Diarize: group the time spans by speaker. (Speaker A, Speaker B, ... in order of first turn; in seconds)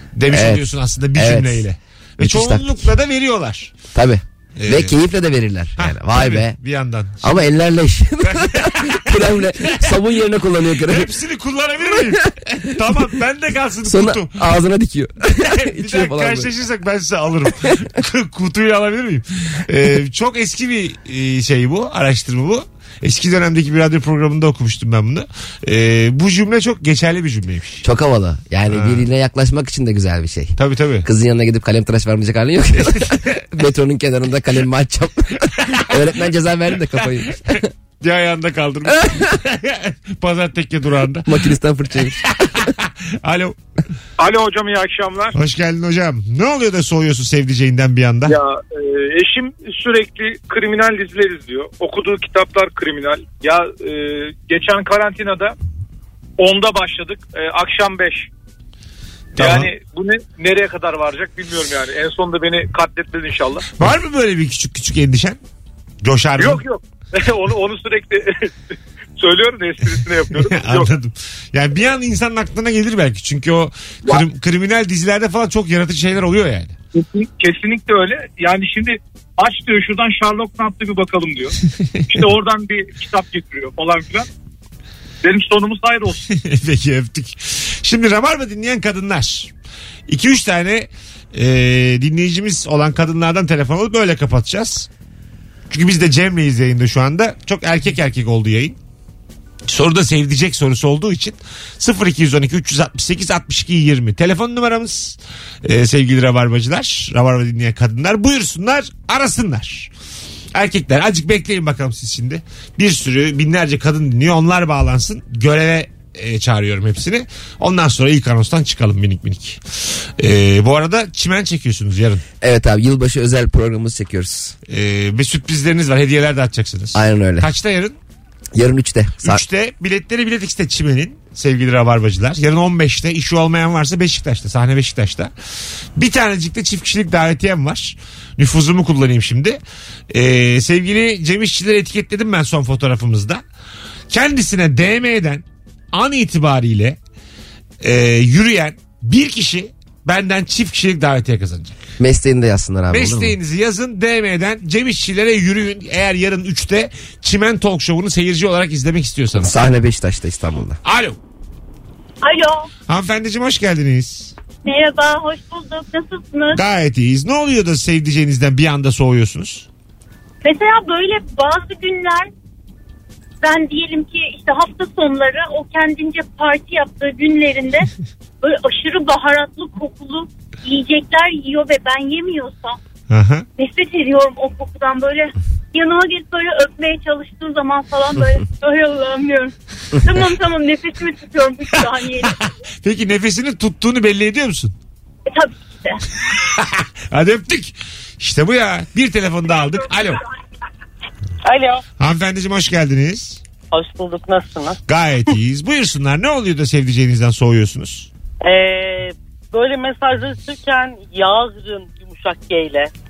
Speaker A: 0.1-3.8, 4.6-5.0, 5.8-7.4, 8.3-9.8, 10.8-14.4, 15.4-27.9, 28.7-29.0, 30.6-31.1, 32.9-33.3, 38.0-41.4, 42.0-43.6, 45.3-48.4, 59.4-59.7, 63.8-65.4, 66.0-66.6, 70.3-76.8, 81.9-82.2, 86.3-89.5, 90.1-94.9, 95.7-98.8, 99.7-109.9, 110.5-119.6, 120.2-122.2, 124.7-128.0, 129.2-135.3, 136.0-143.4, 144.1-147.0, 147.8-151.8, 152.9-159.6, 160.8-161.2, 162.9-164.3, 166.6-169.7, 183.1-183.5, 192.3-194.7, 196.3-200.2, 202.0-203.4, 204.9-208.1
Speaker B: 0.3-1.6, 2.2-2.9, 3.9-6.6, 7.2-11.1, 13.8-16.5, 27.8-37.7, 39.0-39.3, 41.3-42.7, 122.4-124.5, 126.9-127.5, 128.6-129.4, 152.0-153.4, 159.3-160.8
Speaker C: 44.2-45.4, 48.3-55.5, 56.4-58.3, 59.4-63.7, 66.4-68.5, 69.2-70.9, 76.9-81.5, 82.1-84.3, 85.2-86.2
Speaker D: 162.2-162.7, 164.7-166.6, 170.4-172.3, 173.4-177.9, 178.4-182.8, 183.6-192.4, 195.3-196.0
Speaker E: 201.4-201.8, 203.7-204.8, 208.4-212.9